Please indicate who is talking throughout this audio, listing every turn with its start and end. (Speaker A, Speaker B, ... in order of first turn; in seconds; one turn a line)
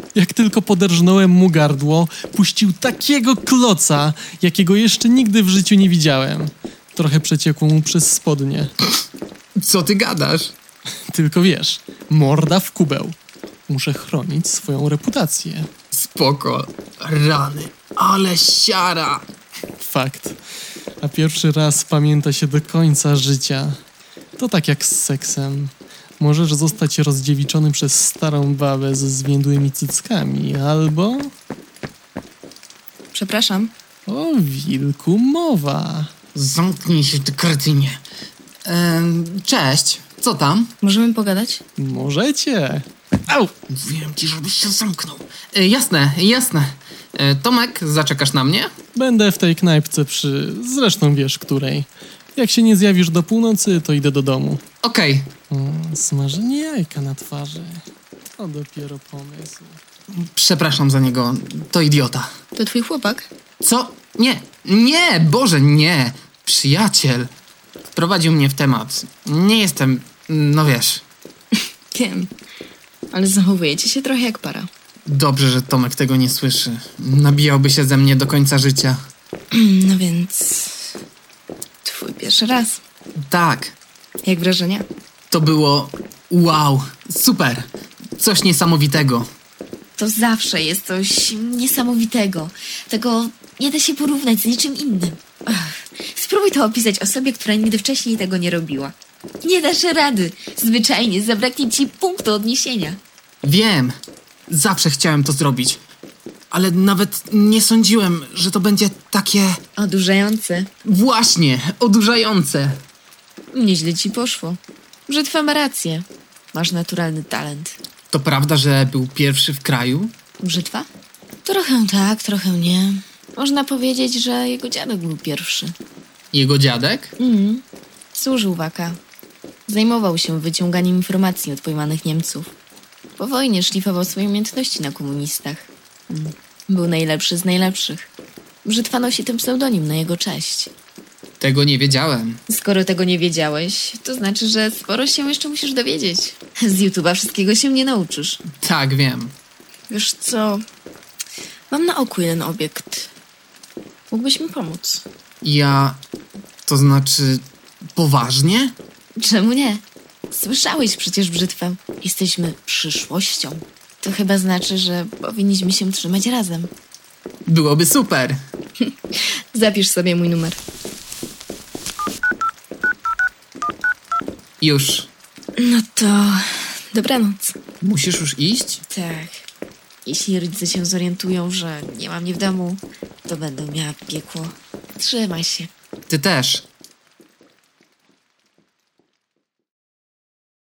Speaker A: 0.1-8.7
Speaker B: 9.6-10.5
Speaker A: 11.1-13.2
Speaker A: 13.7-15.7
Speaker B: 15.9-19.2
Speaker A: 19.8-20.4
Speaker A: 21.0-23.8
Speaker A: 24.4-31.3
Speaker C: 33.1-33.7
Speaker A: 34.1-36.1
Speaker B: 36.3-38.0
Speaker B: 38.6-40.7
Speaker C: 40.8-41.6
Speaker A: 41.8-43.5
Speaker B: 43.7-48.7
Speaker A: 49.0-54.6
Speaker B: 54.8-55.3
Speaker A: 55.5-57.9
Speaker A: 58.4-59.8
Speaker B: 60.1-62.3
Speaker C: 62.5-63.3
Speaker B: 63.6-67.3
Speaker B: 67.9-71.0
Speaker C: 71.9-72.3
Speaker C: 73.1-74.7
Speaker B: 75.1-79.0
Speaker C: 79.5-80.9
Speaker C: 81.8-82.8
Speaker B: 83.2-83.8
Speaker C: 84.2-84.9
Speaker B: 85.3-87.7
Speaker B: 88.2-89.3
Speaker C: 90.0-103.0
Speaker B: 103.4-103.9
Speaker B: 104.5-105.8
Speaker B: 106.5-109.6
Speaker C: 109.8-110.7
Speaker B: 110.8-112.8
Speaker C: 113.5-117.8
Speaker B: 118.1-120.1
Speaker C: 120.4-120.9
Speaker C: 121.5-125.8
Speaker B: 126.3-127.1
Speaker C: 127.2-129.0
Speaker C: 129.7-132.5
Speaker C: 133.2-138.1
Speaker C: 138.6-140.7
Speaker B: 141.4-142.4
Speaker C: 142.5-148.4
Speaker B: 148.6-149.3
Speaker C: 149.9-150.6
Speaker C: 151.7-153.1
Speaker C: 154.1-155.0
Speaker B: 155.4-156.0
Speaker B: 156.7-157.4
Speaker B: 158.0-158.8
Speaker C: 159.2-166.7
Speaker B: 167.5-168.4
Speaker C: 168.8-170.6
Speaker B: 174.6-175.1
Speaker C: 175.6-177.5
Speaker B: 177.8-178.8
Speaker C: 178.9-179.5
Speaker C: 180.1-185.7
Speaker B: 186.1-186.7